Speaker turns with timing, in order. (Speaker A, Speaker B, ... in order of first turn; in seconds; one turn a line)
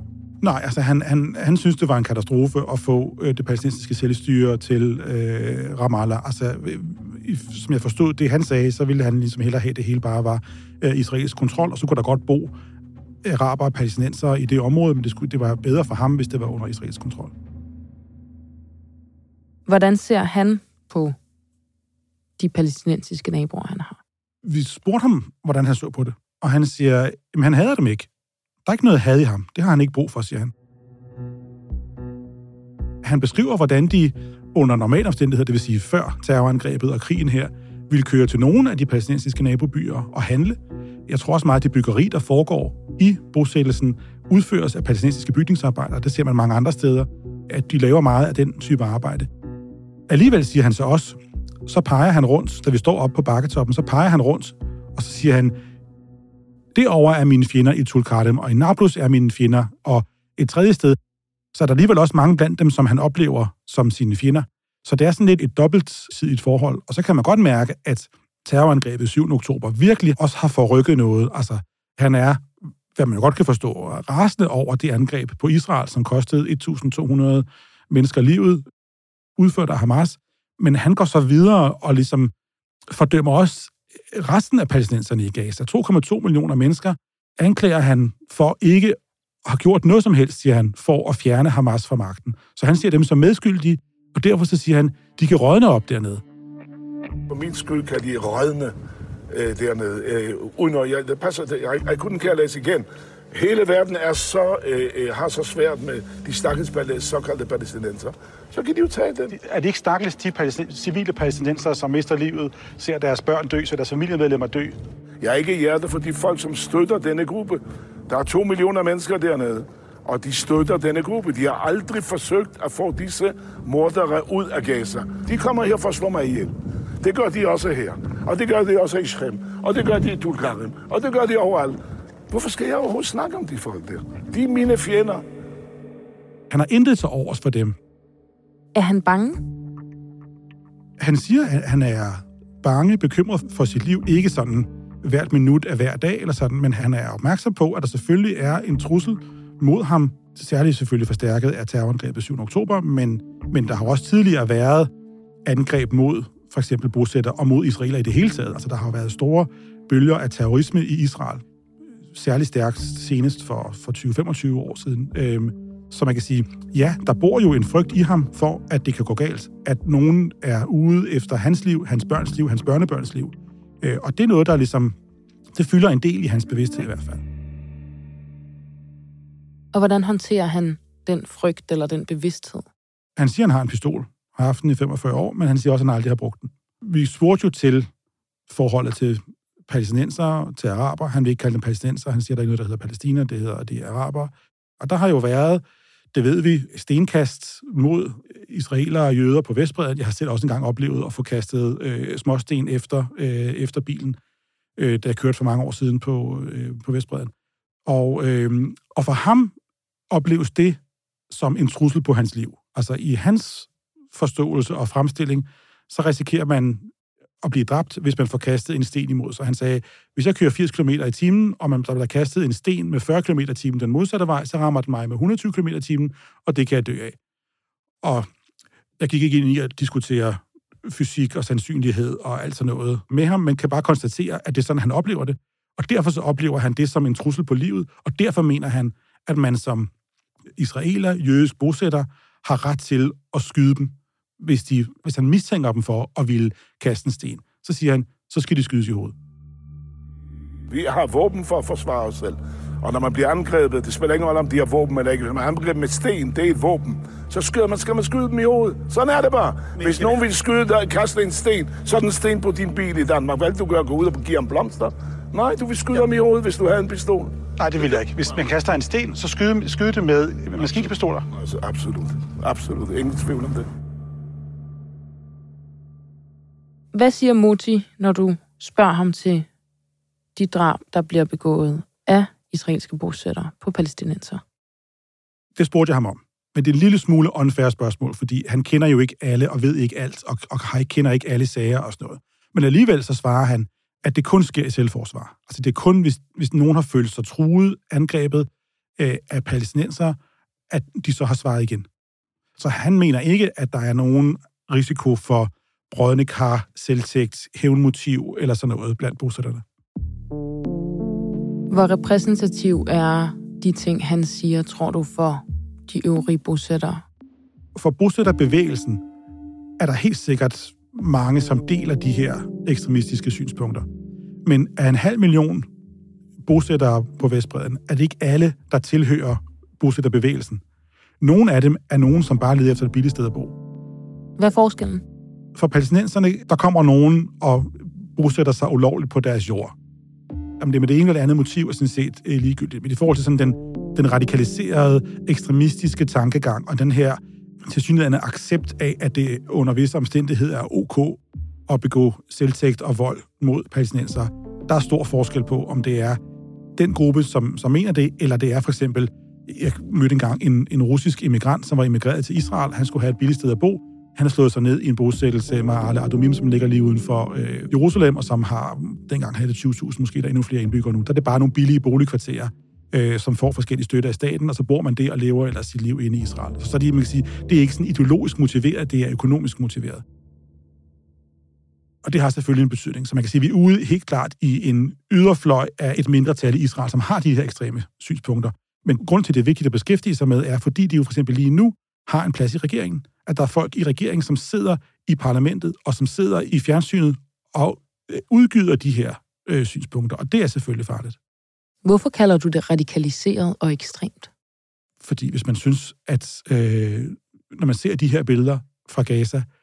Speaker A: 0.4-12.5
Speaker A: 13.2-17.3
Speaker B: 19.6-21.1
Speaker B: 22.4-24.0
Speaker A: 24.4-28.1
Speaker A: 28.6-30.5
Speaker A: 33.0-49.3
Speaker A: 50.1-55.6
Speaker A: 56.7-61.0
Speaker A: 61.5-78.6
Speaker A: 79.4-82.3
Speaker A: 82.9-96.2
Speaker C: 97.3-98.7
Speaker C: 99.3-109.3
Speaker A: 109.3-114.8
Speaker C: 115.2-131.8
Speaker C: 132.3-135.2
Speaker A: 136.5-137.8
Speaker B: 138.7-139.4
Speaker A: 141.0-154.9
Speaker A: 155.4-161.4
Speaker A: 162.1-174.9
Speaker A: 175.5-177.2
Speaker B: 179.7-182.7
Speaker A: 183.2-187.9
Speaker A: 188.5-204.2
Speaker A: 204.8-207.3
Speaker A: 207.8-209.5
Speaker A: 210.1-216.9
Speaker A: 217.4-227.2
Speaker A: 228.0-228.3
Speaker A: 229.0-239.9
Speaker A: 240.6-249.1
Speaker C: 250.7-267.3
Speaker A: 259.8-260.2
Speaker A: 267.6-271.3
Speaker C: 271.3-273.6
Speaker B: 276.9-279.5
Speaker B: 280.4-284.4
Speaker A: 285.6-300.2
Speaker A: 300.7-301.9
Speaker A: 302.6-309.6
Speaker B: 311.7-317.0
Speaker A: 317.7-319.0
Speaker A: 319.8-323.9
Speaker A: 324.4-325.7
Speaker A: 326.4-330.6
Speaker A: 331.2-333.5
Speaker B: 334.4-335.0
Speaker A: 335.5-339.7
Speaker A: 340.6-356.2
Speaker A: 356.8-380.0
Speaker A: 382.0-401.2
Speaker B: 401.8-404.3
Speaker A: 405.0-409.4